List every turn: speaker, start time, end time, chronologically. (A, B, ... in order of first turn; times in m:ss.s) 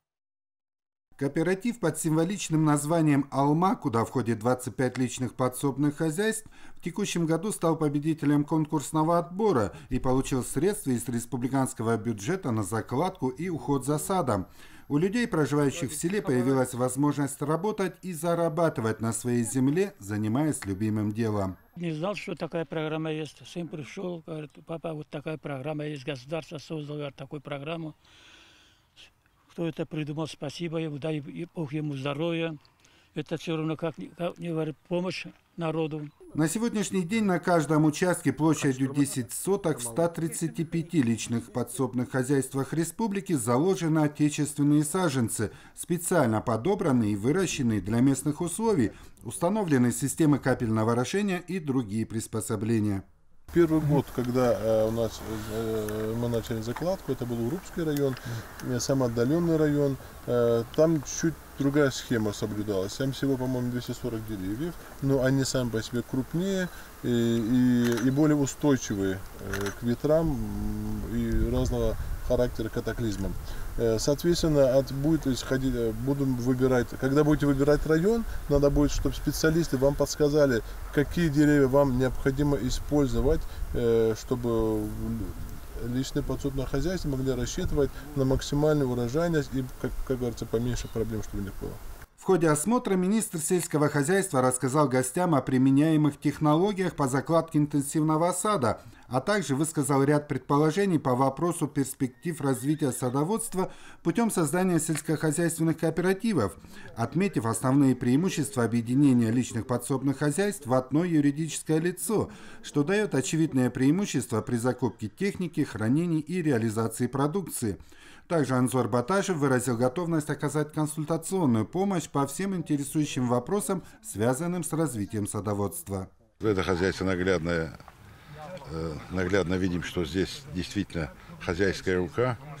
0:01.2-0:21.6 A
0:21.8-0:27.9 B
0:29.5-0:32.6 B
0:33.1-0:36.1 B
0:36.3-0:53.0 A
0:53.5-1:31.8 C
1:32.2-2:06.1 A
2:06.4-2:07.8 D
2:08.7-2:12.4 D